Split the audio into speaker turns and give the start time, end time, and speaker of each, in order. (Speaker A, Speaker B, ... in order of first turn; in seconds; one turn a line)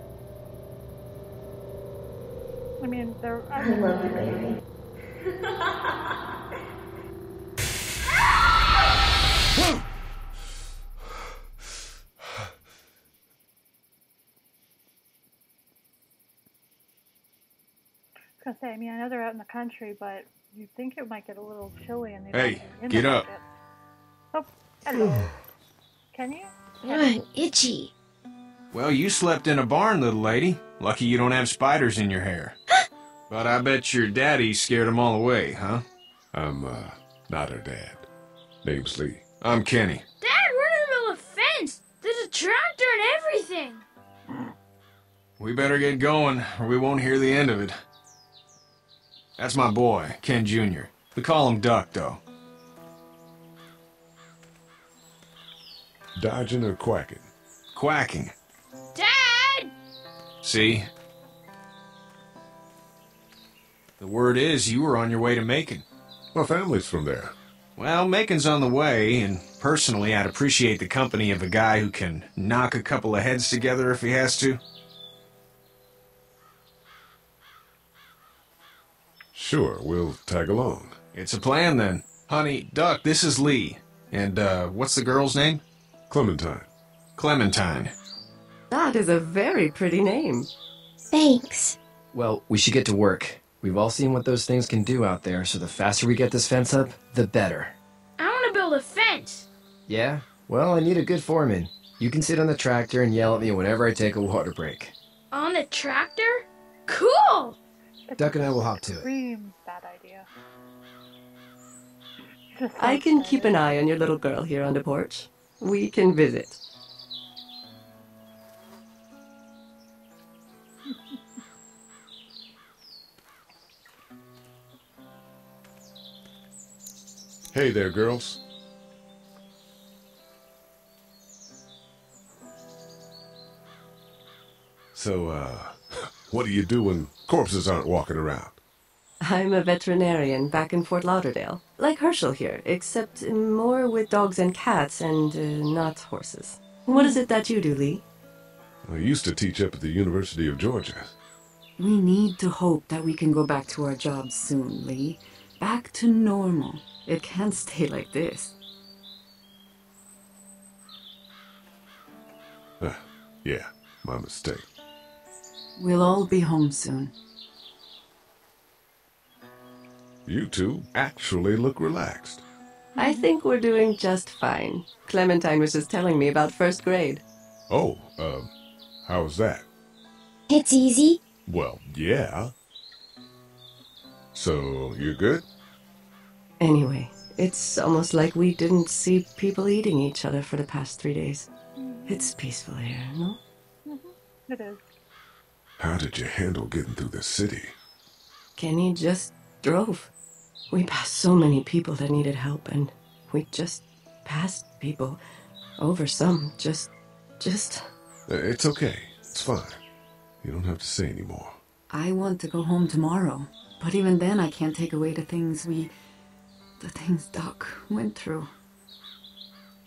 Speaker A: 2.8-4.4
Speaker A: 18.4-23.4
Speaker B: 22.3-23.2
Speaker A: 24.3-25.3
Speaker A: 26.1-27.1
Speaker C: 26.8-27.9
Speaker B: 28.7-32.6
Speaker B: 33.3-35.8
Speaker D: 36.3-38.1
Speaker D: 38.6-39.2
Speaker B: 39.4-40.0
Speaker E: 40.2-43.8
Speaker B: 45.4-47.7
Speaker B: 49.4-52.2
Speaker D: 56.1-57.3
Speaker B: 57.7-58.3
Speaker E: 58.9-59.7
Speaker B: 60.4-60.9
Speaker B: 64.0-65.8
Speaker D: 66.3-67.3
Speaker B: 67.8-74.6
Speaker D: 79.3-81.0
Speaker B: 81.1-85.6
Speaker D: 86.1-86.7
Speaker B: 87.2-87.9
Speaker F: 88.7-90.5
Speaker C: 91.1-91.8
Speaker G: 92.1-97.8
Speaker E: 98.2-99.5
Speaker G: 99.9-104.9
Speaker E: 105.3-107.6
Speaker A: 108.1-110.3
Speaker G: 108.2-109.1
Speaker A: 112.5-113.8
Speaker F: 112.8-116.6
Speaker A: 120.9-121.2
Speaker D: 127.5-128.4
Speaker D: 134.9-138.6
Speaker F: 139.2-148.0
Speaker D: 148.8-151.1
Speaker H: 151.8-158.5
Speaker D: 162.8-164.7
Speaker H: 165.8-167.1
Speaker D: 170.2-172.4
Speaker A: 172.9-173.3
Speaker F: 173.0-177.2
Speaker D: 177.7-178.5
Speaker D: 179.0-179.6
Speaker C: 180.5-181.2
Speaker D: 181.4-182.5
Speaker D: 184.3-185.4
Speaker F: 186.6-191.5
Speaker A: 191.8-192.3
Speaker F: 192.1-193.4
Speaker A: 193.8-194.8
Speaker D: 195.8-197.8
Speaker F: 198.6-200.1
Speaker F: 200.7-205.2
Speaker F: 205.8-207.9
Speaker D: 208.3-209.8
Speaker D: 210.4-211.6
Speaker H: 211.9-215.9
Speaker H: 216.8-218.5